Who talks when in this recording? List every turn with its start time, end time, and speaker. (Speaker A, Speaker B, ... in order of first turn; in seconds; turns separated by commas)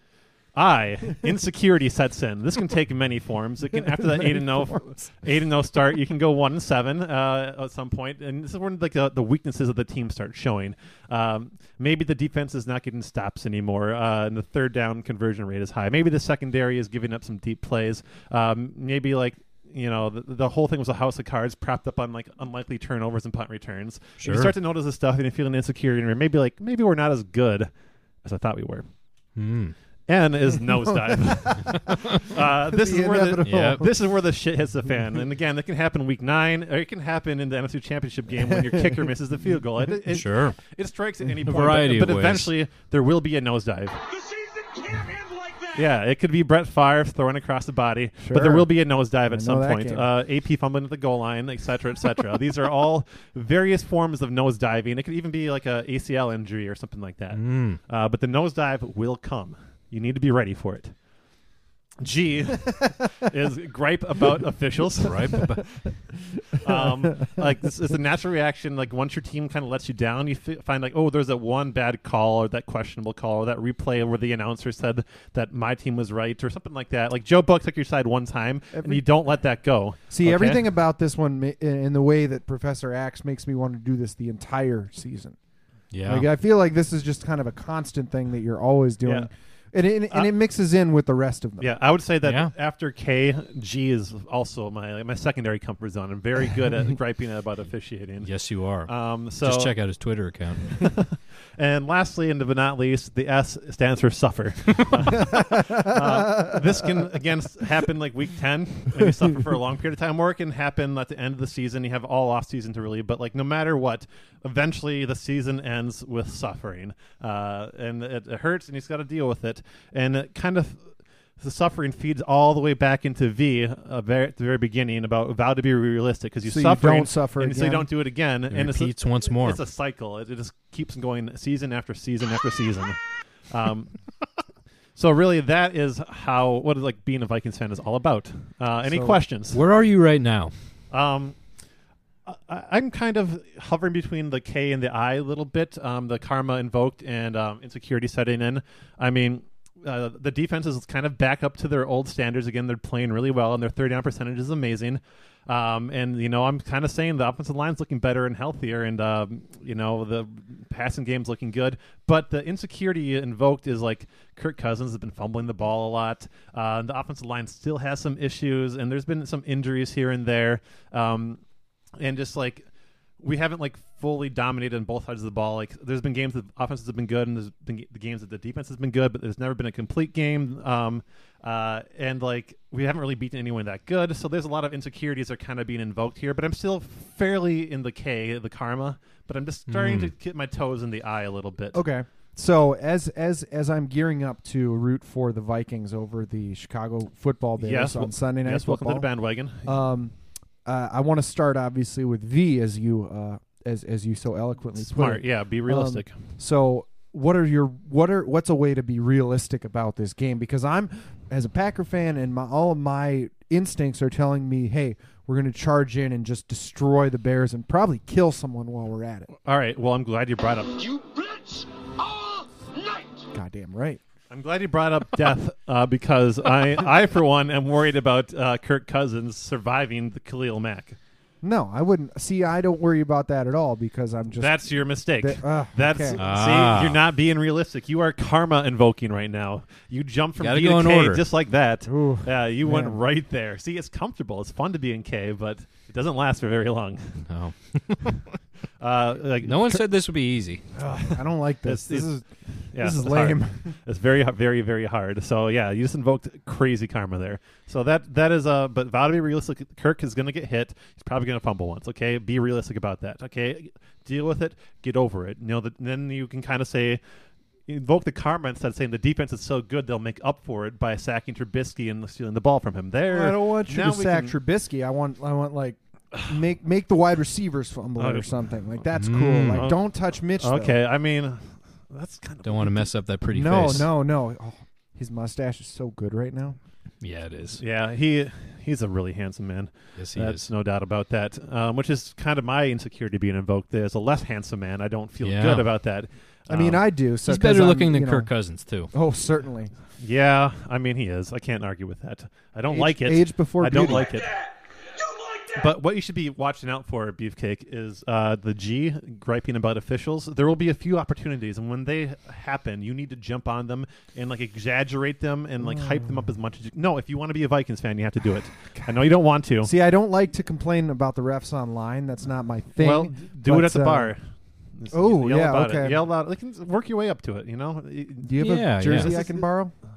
Speaker A: 0.6-27.7, Speaker B: 3.7-5.1, Speaker C: 24.2-24.5, Speaker A: 28.2-28.9, Speaker C: 29.4-29.8, Speaker A: 30.1-44.0, Speaker B: 30.9-33.9, Speaker C: 33.4-33.9, Speaker B: 38.5-39.0, Speaker C: 40.1-40.6, Speaker C: 41.5-42.5, Speaker D: 44.2-45.8, Speaker A: 45.8-61.0, Speaker B: 48.2-48.7, Speaker B: 49.3-50.1, Speaker C: 57.3-57.8, Speaker A: 62.0-65.9, Speaker C: 65.0-65.7, Speaker A: 66.5-80.6, Speaker B: 78.7-79.0, Speaker B: 80.1-85.4, Speaker C: 85.9-86.3, Speaker B: 86.0-91.7, Speaker A: 89.0-89.3, Speaker A: 91.6-99.8, Speaker C: 92.2-92.5, Speaker C: 98.2-100.9, Speaker A: 100.8-134.1, Speaker B: 105.3-106.6, Speaker B: 126.5-127.9, Speaker C: 128.5-129.6, Speaker A: 135.0-139.6, Speaker B: 138.9-139.2, Speaker C: 139.5-140.6, Speaker A: 140.9-141.4, Speaker A: 142.3-171.4, Speaker A: 172.0-172.7, Speaker A: 173.2-191.9, Speaker C: 189.7-190.1, Speaker B: 191.7-199.1, Speaker A: 197.6-199.8, Speaker B: 199.6-219.3, Speaker A: 204.8-206.2, Speaker A: 219.4-220.8, Speaker D: 220.8-223.2, Speaker B: 223.3-224.0, Speaker A: 224.3-231.0, Speaker B: 231.4-236.2, Speaker A: 234.4-247.3, Speaker C: 236.2-237.0, Speaker C: 240.4-241.2, Speaker B: 241.9-243.0, Speaker C: 247.3-248.2, Speaker A: 248.8-249.9, Speaker C: 249.4-250.6, Speaker B: 250.8-253.8, Speaker A: 251.1-267.0, Speaker A: 267.7-274.4, Speaker B: 273.1-280.8, Speaker A: 278.0-278.3, Speaker C: 278.9-279.7, Speaker A: 279.5-282.9, Speaker C: 282.4-283.9, Speaker B: 283.3-286.6, Speaker C: 287.0-287.6, Speaker A: 287.6-296.8, Speaker C: 290.0-290.5, Speaker C: 295.2-295.7, Speaker B: 296.5-299.7, Speaker C: 297.2-298.9, Speaker A: 300.0-304.3, Speaker B: 302.7-304.1, Speaker A: 305.6-319.7, Speaker B: 315.6-316.1, Speaker B: 319.6-324.1, Speaker A: 322.8-329.4, Speaker B: 324.9-326.0, Speaker B: 328.2-329.8, Speaker C: 328.4-329.1